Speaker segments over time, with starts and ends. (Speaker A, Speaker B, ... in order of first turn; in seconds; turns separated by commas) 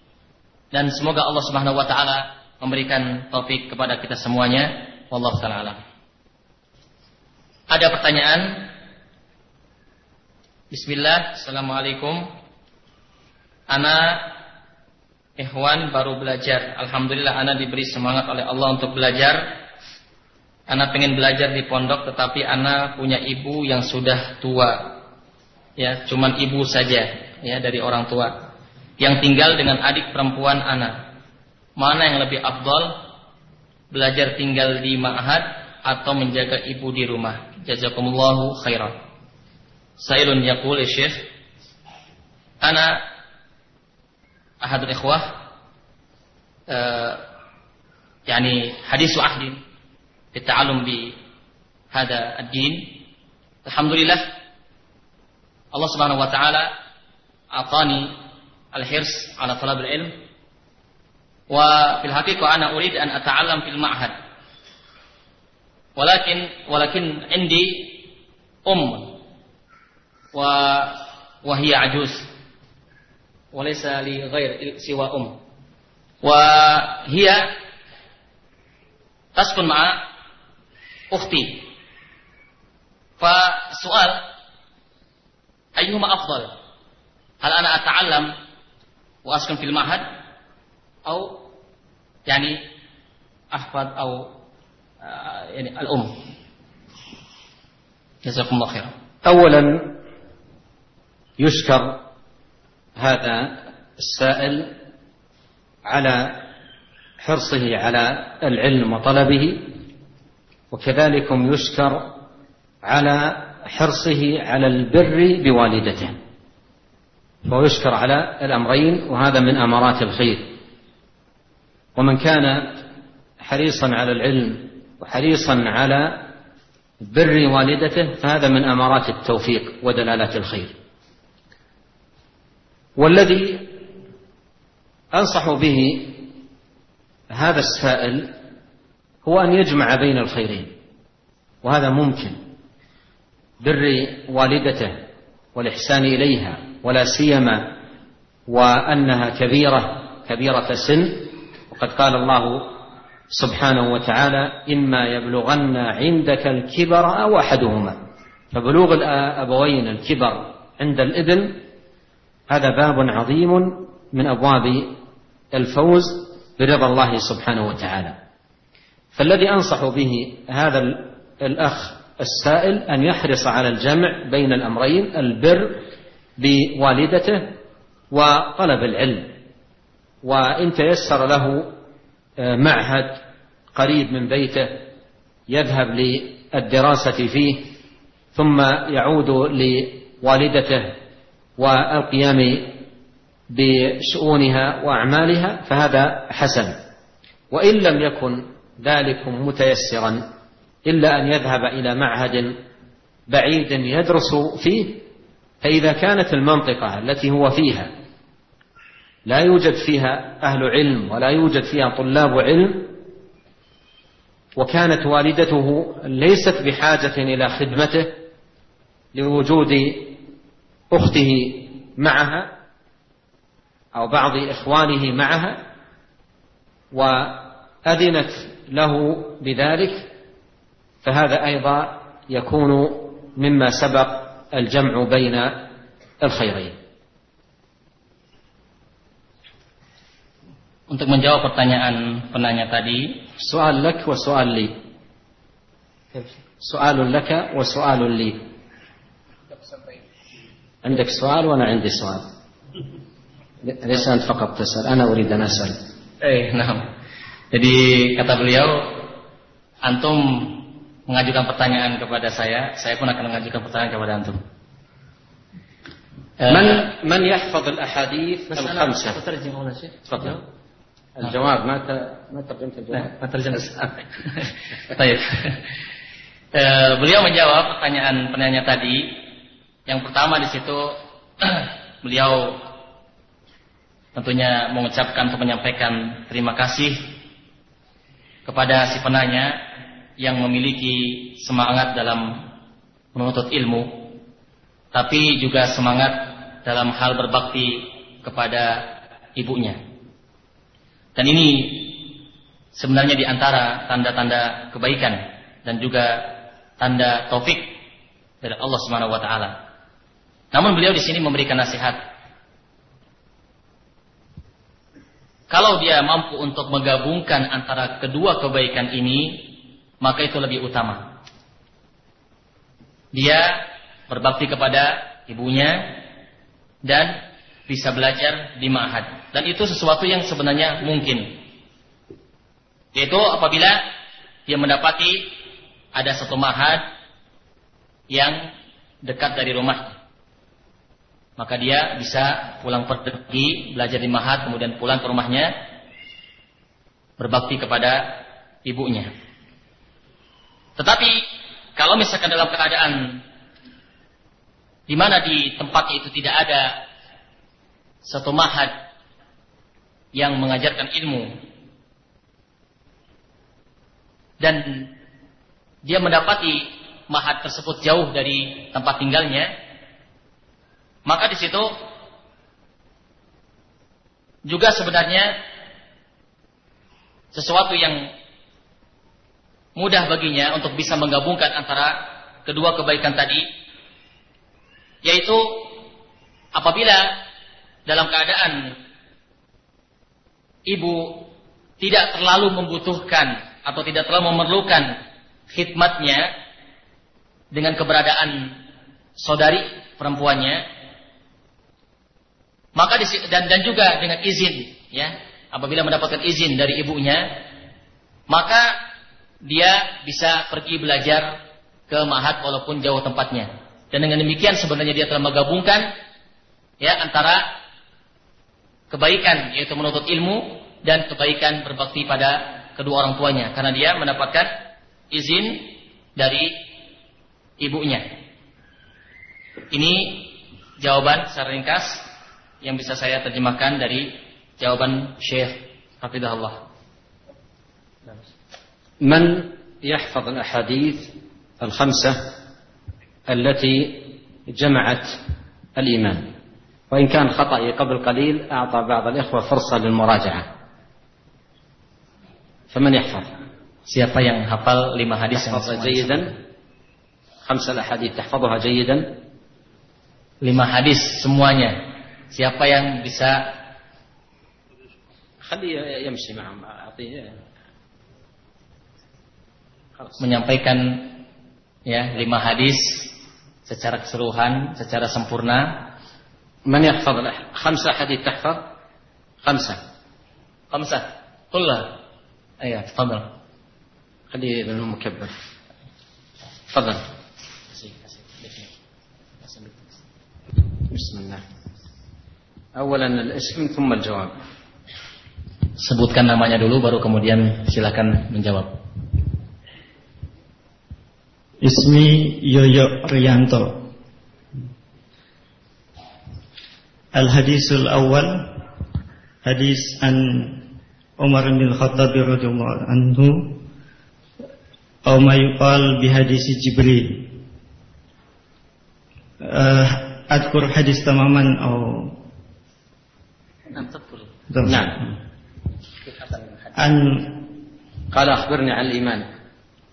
Speaker A: 0.7-5.8, Speaker A: 7.7-8.7, Speaker A: 10.7-12.3, Speaker A: 13.7-14.3, Speaker A: 15.4-19.6, Speaker A: 20.7-25.0, Speaker A: 25.8-28.5, Speaker A: 29.0-31.0, Speaker A: 31.8-33.0, Speaker A: 33.9-39.0, Speaker A: 40.0-41.2, Speaker A: 42.6-43.0, Speaker A: 44.6-45.4, Speaker A: 46.7-47.2, Speaker A: 48.3-49.6, Speaker A: 50.3-51.1, Speaker A: 51.9-53.0, Speaker A: 53.6-54.3, Speaker A: 55.7-56.7, Speaker A: 57.5-58.2, Speaker A: 58.7-60.2, Speaker A: 61.5-64.1, Speaker A: 66.0-68.1, Speaker A: 68.7-69.2, Speaker A: 70.3-72.3, Speaker A: 73.5-75.4, Speaker A: 76.2-77.5, Speaker A: 79.3-80.0, Speaker A: 81.1-81.7, Speaker A: 83.2-84.2, Speaker A: 85.7-86.5, Speaker A: 87.4-88.3, Speaker A: 89.2-90.0, Speaker A: 91.0-91.4, Speaker A: 92.3-92.6, Speaker A: 93.5-94.3, Speaker A: 95.0-96.2, Speaker A: 98.2-98.9, Speaker B: 99.2-100.0, Speaker B: 101.4-102.0, Speaker B: 103.0-104.7, Speaker B: 105.8-106.5, Speaker B: 107.2-109.7, Speaker B: 110.7-112.1, Speaker B: 112.8-116.2, Speaker B: 117.5-120.5, Speaker B: 122.0-122.8, Speaker B: 123.4-126.3, Speaker B: 127.0-130.7, Speaker B: 133.0-133.7, Speaker B: 135.1-136.3, Speaker B: 137.3-138.3, Speaker B: 139.2-140.7, Speaker B: 141.6-142.4, Speaker B: 143.6-145.0, Speaker B: 145.5-147.8, Speaker B: 148.5-158.0, Speaker B: 158.5-161.6, Speaker B: 162.5-165.0, Speaker B: 165.5-168.2, Speaker B: 169.1-175.8, Speaker B: 176.4-177.6, Speaker B: 178.1-179.4, Speaker B: 180.2-181.8, Speaker B: 182.4-183.2, Speaker B: 183.7-184.9, Speaker B: 185.5-187.7, Speaker B: 188.3-191.0, Speaker B: 191.6-192.8, Speaker B: 193.5-196.8, Speaker B: 197.5-200.2, Speaker B: 200.8-202.6, Speaker B: 203.3-205.0, Speaker B: 205.6-207.9, Speaker B: 209.2-212.9, Speaker B: 214.6-218.2, Speaker B: 219.1-220.2, Speaker B: 220.9-222.5, Speaker B: 223.9-225.6, Speaker B: 226.9-230.1, Speaker B: 231.0-236.8, Speaker A: 240.9-243.2, Speaker B: 243.4-244.7, Speaker B: 246.6-248.4, Speaker B: 250.8-252.3, Speaker B: 253.6-255.8, Speaker A: 256.2-256.9, Speaker A: 257.5-259.1, Speaker A: 259.8-264.4, Speaker A: 266.4-266.9, Speaker B: 266.5-269.2, Speaker A: 268.5-270.4, Speaker B: 270.1-270.4, Speaker B: 271.2-273.1, Speaker A: 273.0-275.6, Speaker A: 276.5-279.2, Speaker A: 279.9-282.6, Speaker A: 284.1-287.1, Speaker A: 288.4-289.6, Speaker A: 290.2-292.5, Speaker A: 293.1-294.2, Speaker A: 294.9-299.8, Speaker A: 301.1-302.2, Speaker A: 302.7-307.7, Speaker A: 308.4-309.6, Speaker A: 310.5-312.0, Speaker A: 315.5-321.2, Speaker A: 323.1-326.0, Speaker A: 326.8-331.4, Speaker A: 332.9-333.8, Speaker A: 334.4-335.3, Speaker A: 335.9-336.9, Speaker A: 338.1-338.5, Speaker A: 339.0-340.0, Speaker A: 341.4-345.6, Speaker A: 347.2-349.1, Speaker A: 350.8-353.2, Speaker A: 354.9-356.8, Speaker A: 358.0-358.8, Speaker A: 360.1-361.3, Speaker A: 364.4-364.9, Speaker A: 365.8-369.5, Speaker A: 371.1-371.7, Speaker A: 374.4-375.4, Speaker A: 377.3-378.1, Speaker A: 379.8-383.4, Speaker A: 385.0-385.7, Speaker A: 386.5-387.2, Speaker A: 387.9-388.8, Speaker A: 390.6-391.3, Speaker A: 391.8-396.3, Speaker A: 397.5-398.6, Speaker A: 399.2-400.6, Speaker A: 402.7-407.4, Speaker A: 408.3-408.8, Speaker A: 409.4-415.9, Speaker A: 416.8-417.5, Speaker A: 418.9-426.6, Speaker A: 427.6-428.1, Speaker A: 429.7-432.1, Speaker A: 432.6-436.6, Speaker B: 439.0-442.3, Speaker B: 443.3-445.2, Speaker B: 445.8-446.3, Speaker B: 446.9-450.5, Speaker B: 452.7-453.3, Speaker A: 453.9-456.3, Speaker B: 455.3-456.3, Speaker B: 457.4-459.2, Speaker A: 460.4-463.4, Speaker B: 465.4-467.4, Speaker A: 470.2-471.2, Speaker A: 471.9-475.9, Speaker B: 476.7-478.7, Speaker B: 479.4-479.8, Speaker A: 480.7-482.0, Speaker A: 482.6-483.3, Speaker B: 484.3-485.3, Speaker B: 486.7-487.0, Speaker B: 490.9-491.4, Speaker B: 492.8-494.3, Speaker A: 495.8-498.8, Speaker C: 501.6-503.9, Speaker C: 507.1-508.6, Speaker C: 509.4-510.6, Speaker C: 511.2-513.6, Speaker C: 515.0-517.4, Speaker C: 519.4-522.2, Speaker A: 523.7-524.3, Speaker C: 524.5-524.9, Speaker B: 524.6-525.0, Speaker C: 526.8-527.5, Speaker B: 528.1-529.3